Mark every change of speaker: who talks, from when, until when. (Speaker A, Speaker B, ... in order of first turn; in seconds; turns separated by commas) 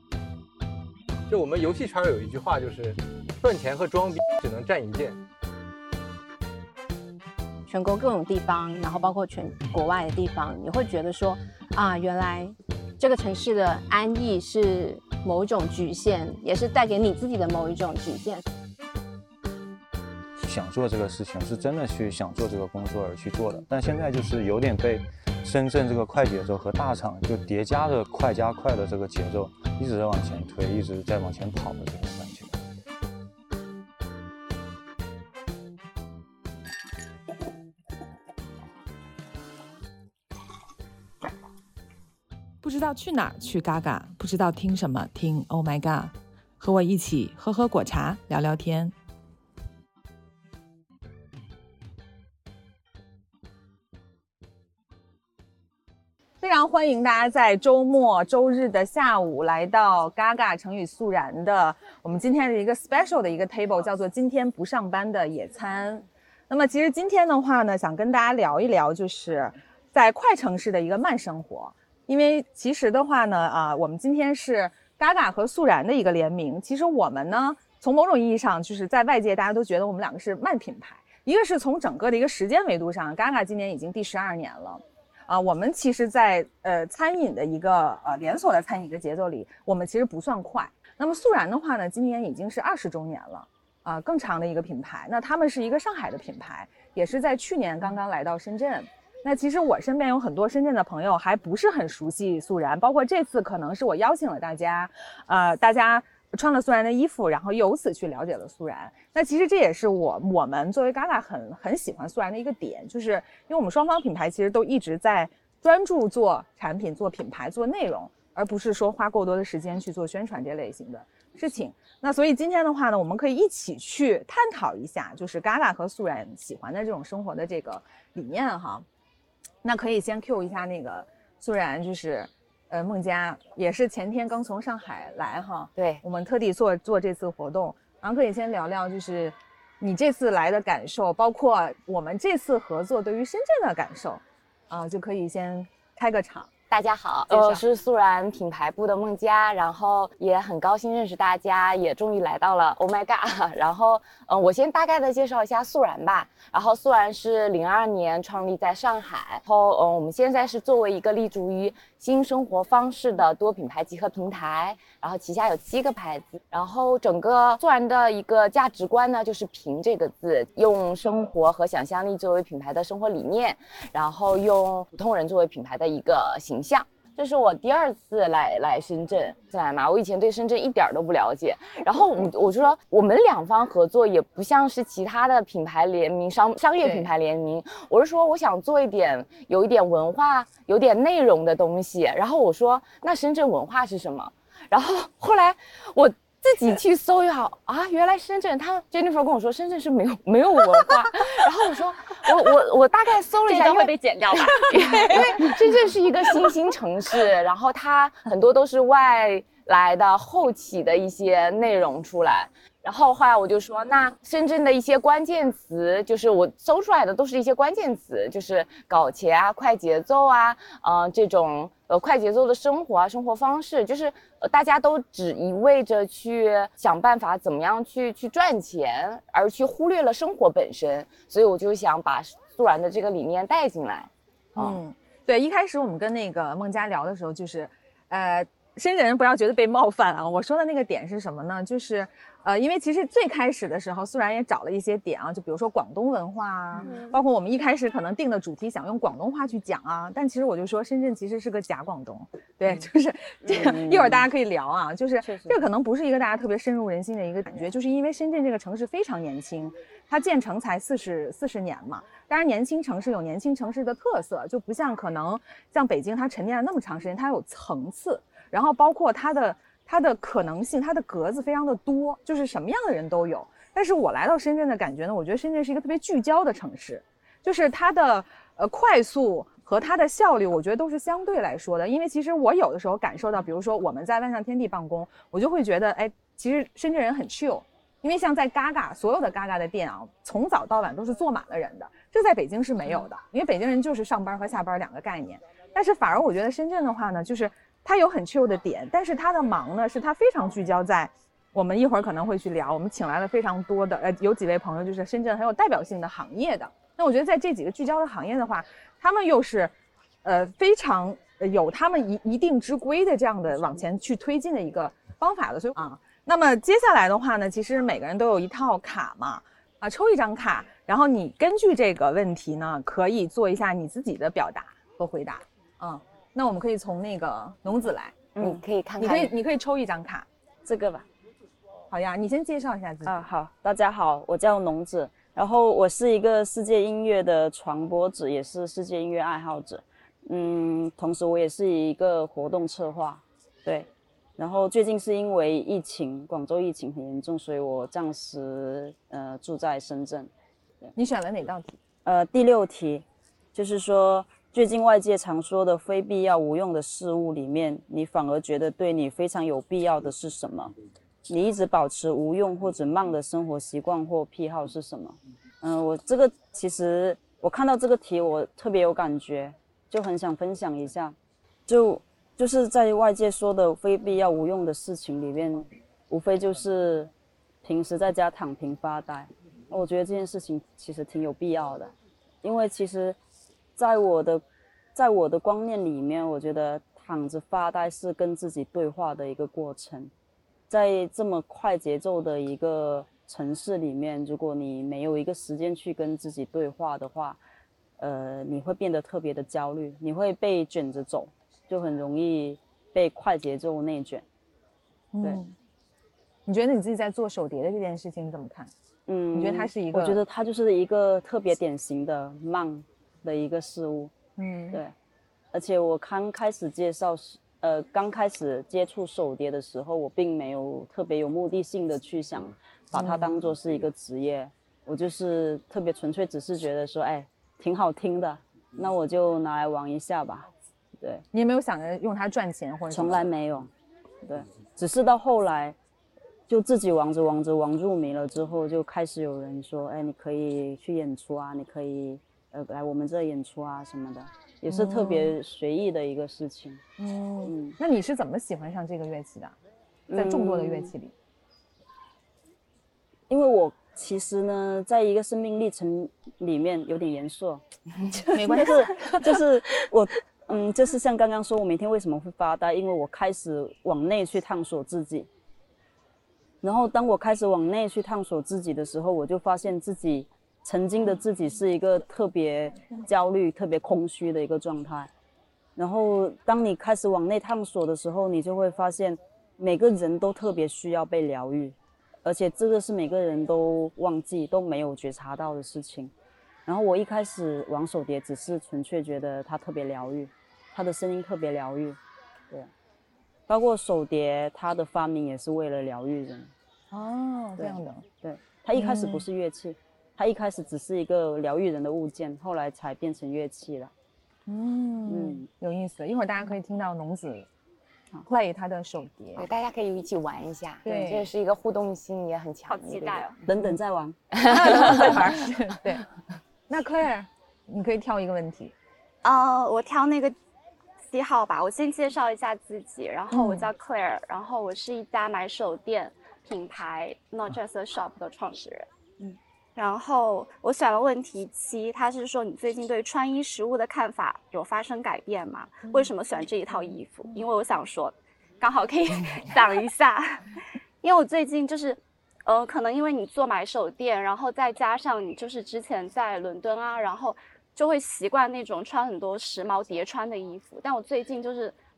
Speaker A: 1.3-5.2, Speaker B: 7.7-18.4, Speaker C: 20.4-32.5, Speaker D: 42.6-48.9, Speaker E: 56.4-128.8, Speaker E: 129.6-146.5, Speaker F: 135.8-136.0, Speaker F: 146.7-234.8, Speaker G: 203.5-205.7, Speaker E: 234.6-309.7, Speaker G: 246.8-247.1, Speaker H: 253.5-254.3, Speaker H: 255.2-255.6, Speaker E: 310.2-328.4, Speaker F: 328.4-329.3, Speaker E: 329.0-330.3, Speaker F: 330.6-331.1, Speaker E: 331.9-333.2, Speaker H: 333.0-350.3, Speaker E: 351.0-351.8, Speaker H: 352.0-360.7, Speaker H: 361.3-371.2, Speaker H: 371.7-377.1, Speaker H: 377.6-383.2, Speaker H: 383.8-384.4, Speaker H: 384.9-390.1, Speaker H: 390.7-397.4, Speaker H: 398.0-404.2, Speaker E: 405.2-405.5, Speaker E: 406.5-408.7, Speaker H: 409.1-414.1, Speaker E: 409.3-410.2, Speaker E: 414.4-414.8, Speaker H: 415.5-431.2, Speaker E: 422.9-423.4, Speaker E: 431.3-433.3, Speaker H: 432.9-433.7, Speaker H: 434.2-435.8, Speaker H: 436.5-446.8, Speaker E: 444.7-445.4, Speaker E: 447.0-449.6, Speaker H: 447.4-447.8, Speaker H: 450.1-450.9, Speaker E: 450.1-451.1, Speaker H: 453.3-457.6, Speaker H: 458.3-465.3, Speaker E: 458.3-458.8, Speaker H: 466.6-475.1, Speaker H: 475.8-486.1, Speaker H: 486.7-492.0, Speaker H: 493.5-496.5, Speaker E: 496.9-498.0, Speaker H: 497.6-503.9, Speaker E: 498.8-499.3, Speaker E: 504.5-507.5, Speaker H: 505.1-505.5, Speaker E: 508.3-509.5, Speaker F: 509.4-513.4, Speaker E: 510.9-511.3, Speaker G: 512.7-513.4, Speaker H: 513.5-514.2, Speaker F: 514.3-515.4, Speaker E: 514.5-516.0, Speaker E: 516.7-518.7, Speaker G: 519.2-520.4, Speaker G: 521.0-528.9, Speaker E: 523.3-523.7, Speaker G: 529.8-540.5, Speaker G: 541.0-551.8